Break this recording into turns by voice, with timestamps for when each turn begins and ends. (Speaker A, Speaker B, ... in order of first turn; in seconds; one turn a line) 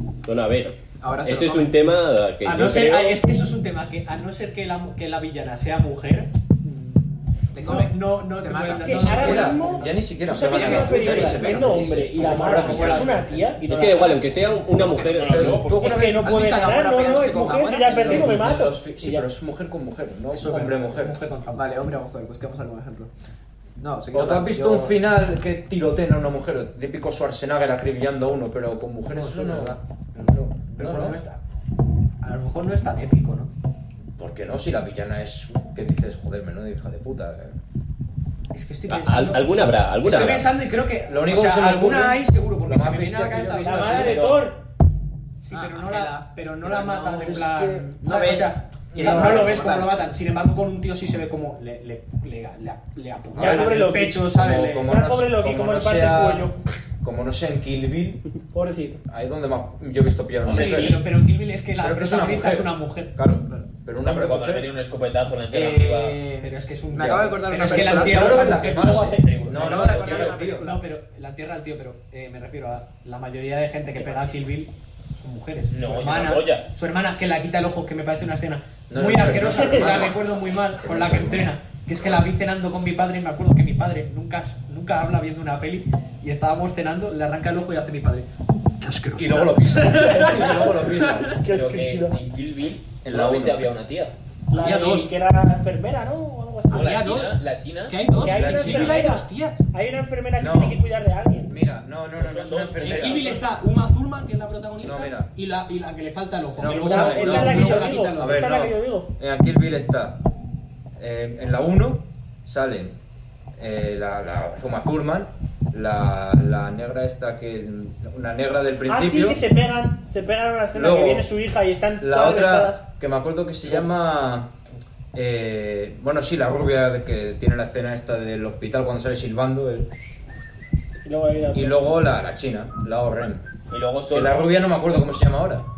Speaker A: 0.2-3.2
Speaker B: 1.0-1.8
Speaker C: 2.4-7.1
Speaker B: 7.5-9.8
Speaker C: 7.6-9.8
Speaker D: 8.7-14.4
Speaker E: 9.0-13.2
Speaker C: 10.6-13.6
Speaker B: 10.6-11.9
Speaker A: 13.6-15.7
Speaker E: 14.8-16.4
Speaker F: 14.8-16.0
Speaker D: 15.7-19.3
Speaker B: 16.0-18.4
Speaker E: 17.9-21.2
Speaker C: 20.3-21.7
Speaker B: 21.5-23.1
Speaker B: 23.8-25.0
Speaker E: 24.1-31.2
Speaker C: 29.1-31.4
Speaker C: 32.2-33.5
Speaker E: 34.2-37.6
Speaker C: 38.5-44.2
Speaker A: 38.9-40.5
Speaker E: 41.1-44.0
Speaker B: 43.4-43.9
Speaker D: 43.6-44.6
Speaker F: 43.9-44.5
Speaker C: 45.4-55.0
Speaker B: 45.5-50.0
Speaker E: 47.2-47.8
Speaker E: 53.4-53.8
Speaker D: 53.4-56.6
Speaker E: 54.3-58.2
Speaker D: 58.5-59.0
Speaker E: 59.1-61.0
Speaker C: 60.5-63.2
Speaker F: 60.5-61.0
Speaker E: 61.8-64.7
Speaker F: 64.0-66.2
Speaker B: 65.5-68.5
Speaker C: 66.4-69.2
Speaker E: 67.0-70.7
Speaker D: 68.4-69.5
Speaker F: 68.6-70.3
Speaker B: 69.5-70.8
Speaker C: 69.8-88.3
Speaker F: 75.7-76.7
Speaker E: 78.9-81.5
Speaker D: 79.6-80.0
Speaker C: 88.8-91.2
Speaker E: 89.2-91.4
Speaker D: 90.2-90.7
Speaker F: 91.4-94.2
Speaker D: 91.4-92.2
Speaker E: 93.0-93.7
Speaker D: 94.5-97.2
Speaker C: 94.5-95.1
Speaker F: 96.7-98.1
Speaker C: 96.7-99.7
Speaker D: 98.1-101.6
Speaker E: 98.1-99.2
Speaker E: 100.4-100.8
Speaker E: 101.5-103.4
Speaker F: 102.2-103.4
Speaker C: 102.8-108.5
Speaker E: 104.8-105.3
Speaker E: 106.6-110.2
Speaker D: 106.7-109.1
Speaker E: 111.0-113.0
Speaker E: 113.6-119.4
Speaker D: 118.9-122.8
Speaker E: 120.7-121.3
Speaker E: 122.0-124.5
Speaker E: 125.1-129.9
Speaker D: 131.1-132.0
Speaker E: 131.5-133.5
Speaker F: 133.7-134.5
Speaker E: 134.1-135.7